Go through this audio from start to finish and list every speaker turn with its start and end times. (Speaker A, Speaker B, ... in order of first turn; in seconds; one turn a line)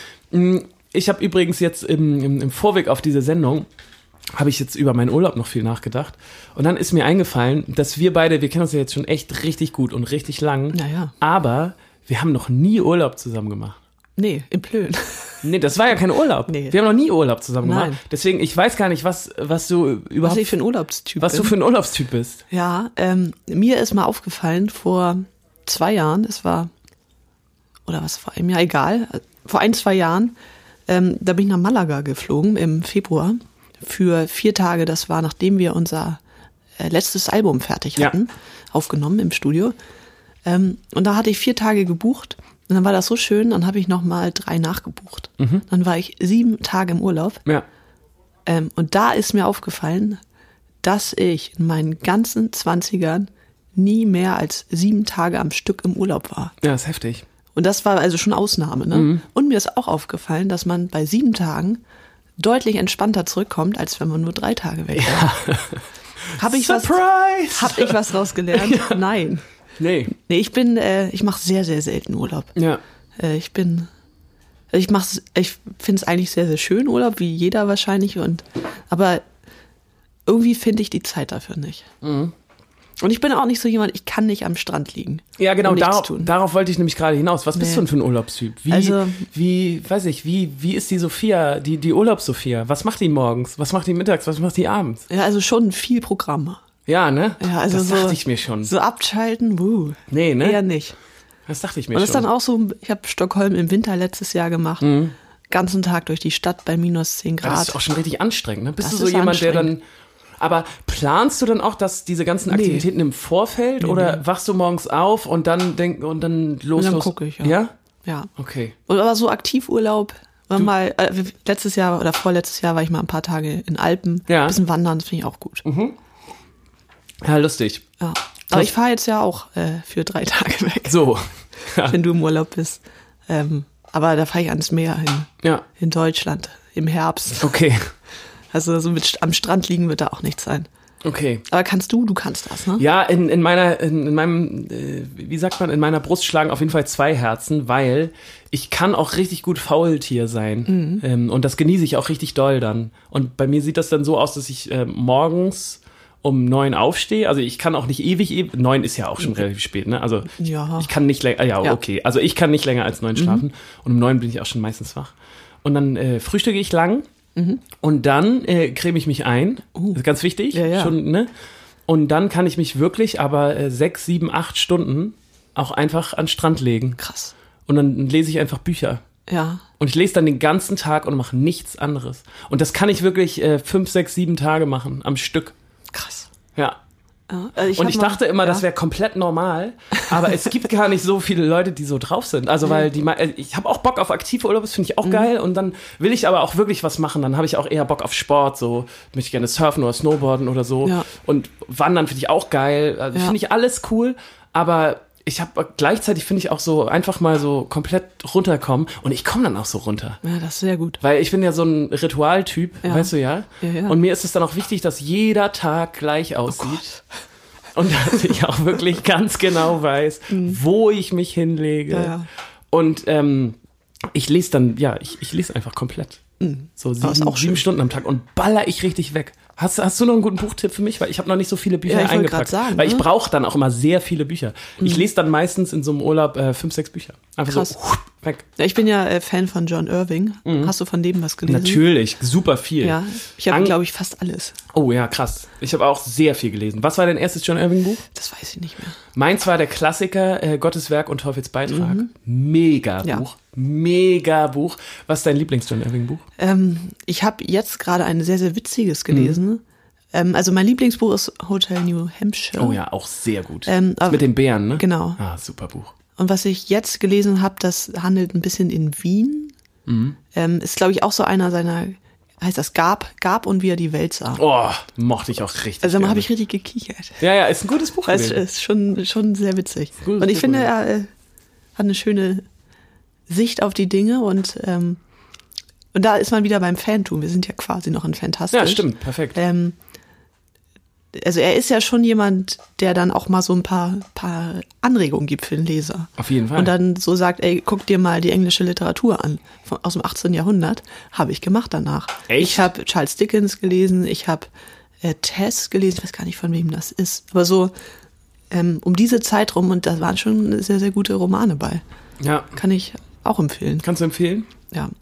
Speaker A: 0.3-3.7
Speaker A: 4.3-13.8
Speaker B: 10.7-11.1
Speaker B: 14.2-15.4
Speaker A: 15.4-20.6
Speaker B: 16.5-16.8
Speaker B: 17.6-18.0
Speaker B: 20.2-21.6
Speaker A: 21.2-22.4
Speaker B: 22.5-26.7
Speaker B: 27.9-30.4
Speaker B: 30.9-36.2
Speaker B: 36.8-39.8
Speaker B: 40.5-47.4
Speaker A: 45.4-45.6
Speaker B: 48.5-50.2
Speaker B: 50.8-56.6
Speaker A: 56.6-57.3
Speaker B: 57.5-61.8
Speaker A: 58.9-59.2
Speaker B: 62.4-65.3
Speaker A: 65.0-65.8
Speaker B: 66.4-67.0
Speaker A: 66.4-69.0
Speaker B: 67.5-69.5
Speaker A: 69.8-70.1
Speaker B: 70.1-72.5
Speaker A: 72.6-72.8
Speaker B: 73.2-73.9
Speaker B: 74.7-79.2
Speaker B: 80.3-81.9
Speaker A: 82.0-82.3
Speaker B: 83.0-86.3
Speaker A: 85.4-95.1
Speaker B: 87.5-87.9
Speaker B: 88.7-89.3
Speaker B: 95.1-96.6
Speaker A: 96.9-98.7
Speaker B: 97.4-101.0
Speaker A: 100.1-100.6
Speaker A: 101.5-102.3
Speaker B: 101.9-104.9
Speaker A: 104.8-105.2
Speaker B: 105.5-107.8
Speaker A: 107.4-109.8
Speaker B: 108.8-109.7
Speaker A: 110.4-117.7
Speaker B: 112.5-112.9
Speaker B: 113.8-114.2
Speaker B: 116.8-118.3
Speaker A: 118.4-118.8
Speaker B: 118.9-125.7
Speaker A: 124.3-124.6
Speaker A: 125.7-126.0
Speaker A: 127.2-127.8
Speaker B: 128.0-131.1
Speaker A: 130.9-132.0
Speaker B: 131.8-137.6
Speaker A: 137.4-137.9
Speaker B: 138.5-140.7
Speaker A: 141.0-141.4
Speaker B: 141.5-142.8
Speaker A: 142.8-167.1
Speaker B: 150.7-151.0
Speaker B: 160.4-160.9
Speaker B: 163.2-163.4
Speaker B: 167.4-167.6
Speaker A: 167.8-171.3
Speaker B: 169.8-170.0
Speaker B: 170.5-170.9
Speaker A: 171.9-177.0
Speaker B: 177.0-177.3
Speaker A: 177.7-179.0
Speaker B: 179.3-179.6
Speaker A: 179.8-185.6
Speaker B: 185.9-186.3
Speaker B: 187.3-188.6
Speaker A: 187.7-210.2
Speaker B: 210.2-211.0
Speaker A: 211.0-217.0
Speaker B: 212.8-214.0
Speaker A: 217.8-222.2
Speaker B: 220.3-220.6
Speaker B: 221.9-222.3
Speaker A: 222.7-223.6
Speaker A: 224.1-226.2
Speaker B: 226.4-227.6
Speaker A: 226.8-238.5
Speaker B: 231.9-233.1
Speaker B: 234.8-235.1
Speaker B: 237.5-237.7
Speaker B: 238.6-241.8
Speaker A: 240.4-240.7
Speaker A: 241.5-243.8
Speaker B: 242.8-244.6
Speaker A: 244.7-248.0
Speaker B: 248.1-249.0
Speaker A: 249.1-256.2
Speaker B: 251.7-252.1
Speaker B: 256.4-259.6
Speaker A: 259.1-259.4
Speaker B: 260.1-262.8
Speaker A: 262.6-265.9
Speaker B: 263.7-265.2
Speaker B: 266.2-269.5
Speaker A: 269.9-270.2
Speaker B: 270.3-274.4
Speaker A: 274.4-276.3
Speaker B: 275.8-277.2
Speaker A: 277.2-278.4
Speaker B: 278.1-281.1
Speaker A: 280.0-280.7
Speaker B: 281.8-282.4
Speaker B: 283.3-285.0
Speaker B: 285.9-289.8
Speaker A: 288.5-289.4
Speaker B: 291.1-304.5
Speaker A: 296.2-296.7
Speaker A: 302.3-302.7
Speaker B: 305.0-307.7
Speaker B: 308.5-311.8
Speaker A: 312.2-312.6
Speaker B: 312.5-313.9
Speaker A: 313.8-314.5